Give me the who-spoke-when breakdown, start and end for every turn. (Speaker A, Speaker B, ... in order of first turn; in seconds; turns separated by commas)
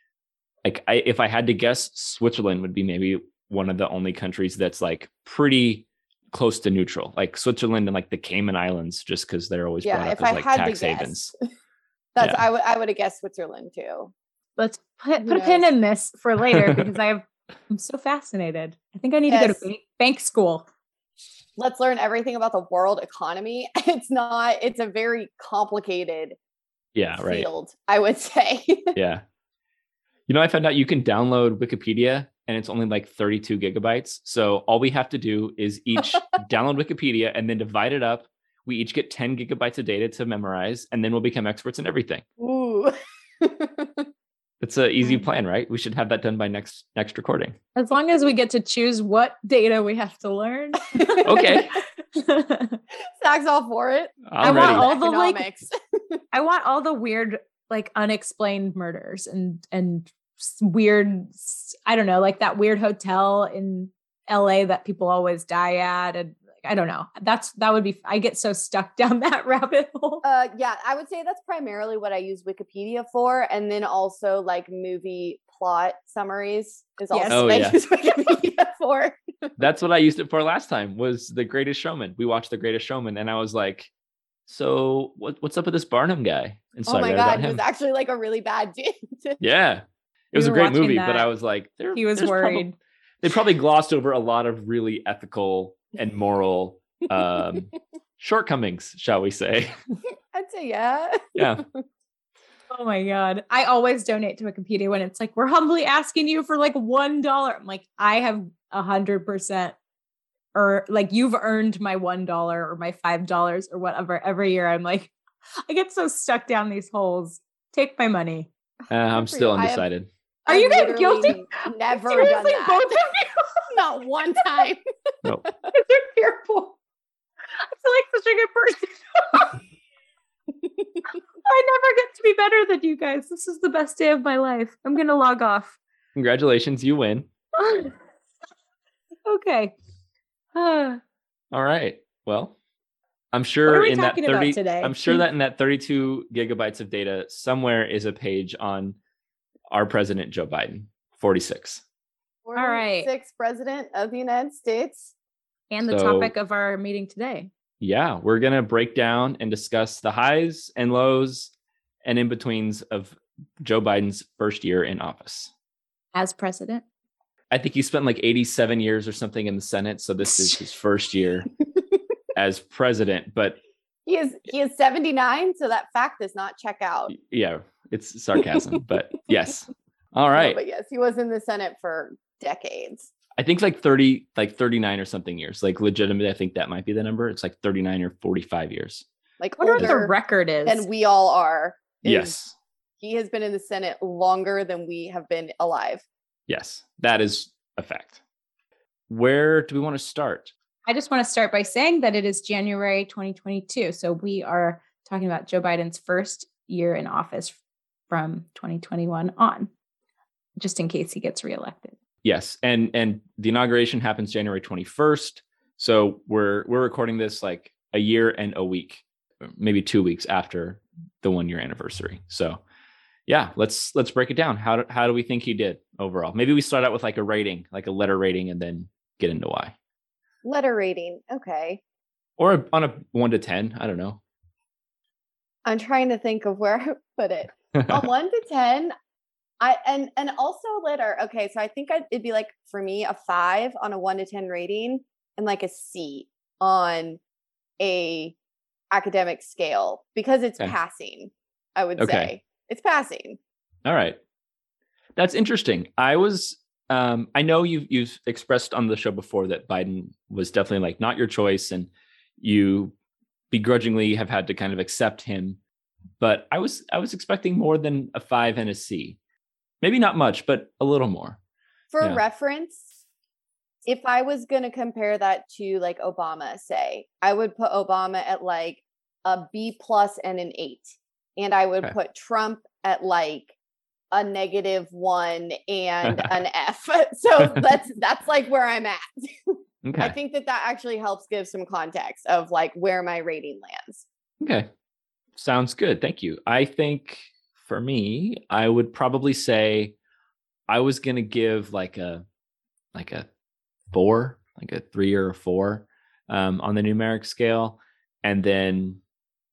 Speaker A: 0.6-11.3, Speaker B: 9.8-11.3, Speaker B: 12.2-14.1, Speaker A: 12.2-12.4, Speaker C: 14.6-20.7, Speaker B: 15.2-15.7, Speaker A: 16.5-16.8, Speaker B: 19.3-19.6, Speaker B: 21.6-26.4, Speaker A: 26.9-27.5, Speaker B: 27.1-29.0, Speaker A: 29.0-29.2, Speaker A: 30.3-42.2, Speaker B: 42.4-44.1, Speaker A: 44.6-47.6, Speaker C: 47.8-52.8, Speaker B: 51.0-51.5, Speaker A: 51.2-51.8, Speaker B: 53.2-56.2, Speaker A: 54.3-54.9, Speaker C: 54.4-55.5, Speaker C: 56.3-70.2, Speaker B: 70.2-79.5, Speaker C: 77.1-78.2, Speaker A: 77.3-77.8, Speaker A: 79.6-83.9, Speaker A: 84.5-87.6, Speaker B: 86.9-89.4, Speaker A: 89.4-92.7, Speaker C: 90.3-91.3, Speaker C: 91.9-92.8, Speaker A: 93.2-99.8, Speaker B: 100.3-101.8, Speaker A: 101.3-101.6, Speaker C: 102.7-109.8, Speaker C: 110.5-115.1, Speaker C: 115.7-118.5, Speaker B: 118.9-119.9, Speaker A: 118.9-120.1, Speaker B: 120.5-123.2, Speaker C: 120.5-123.5, Speaker B: 123.7-124.8, Speaker C: 125.7-126.8, Speaker C: 127.6-129.6, Speaker C: 131.4-135.8, Speaker A: 136.2-137.3, Speaker C: 137.6-138.0, Speaker C: 139.2-139.8, Speaker C: 140.5-141.0, Speaker A: 141.5-142.6, Speaker A: 143.3-149.0, Speaker C: 143.7-145.2, Speaker A: 149.7-151.8, Speaker B: 152.4-155.1, Speaker C: 152.6-153.1, Speaker C: 155.7-157.5, Speaker A: 155.8-156.3, Speaker A: 157.8-161.5, Speaker A: 162.0-165.5, Speaker C: 166.1-166.8, Speaker A: 167.5-171.5, Speaker A: 172.3-173.6, Speaker B: 174.1-177.1, Speaker A: 177.1-180.6, Speaker B: 180.3-183.1, Speaker A: 183.4-189.1, Speaker B: 189.4-190.1, Speaker C: 189.6-190.9, Speaker B: 190.7-192.4, Speaker A: 192.1-192.6, Speaker B: 193.0-196.1, Speaker A: 196.5-198.2, Speaker A: 199.1-200.5, Speaker C: 200.9-207.6, Speaker C: 208.1-209.7, Speaker C: 210.6-212.0, Speaker A: 212.2-222.6, Speaker A: 223.3-229.8, Speaker B: 230.4-231.8, Speaker A: 232.4-234.2, Speaker B: 235.7-238.9, Speaker A: 237.8-238.1, Speaker B: 239.6-247.2, Speaker B: 247.8-248.3, Speaker B: 248.9-253.4, Speaker A: 252.0-252.3, Speaker A: 253.8-254.2, Speaker A: 255.2-262.9, Speaker A: 263.5-265.6, Speaker A: 266.2-269.2, Speaker A: 269.8-271.4, Speaker B: 271.9-272.9, Speaker B: 273.9-283.5, Speaker B: 284.1-294.1, Speaker A: 286.0-286.3, Speaker A: 287.4-287.6, Speaker A: 289.8-290.1, Speaker A: 294.4-294.7, Speaker A: 295.4-299.9, Speaker A: 300.7-302.2, Speaker A: 302.9-303.3, Speaker A: 303.9-309.0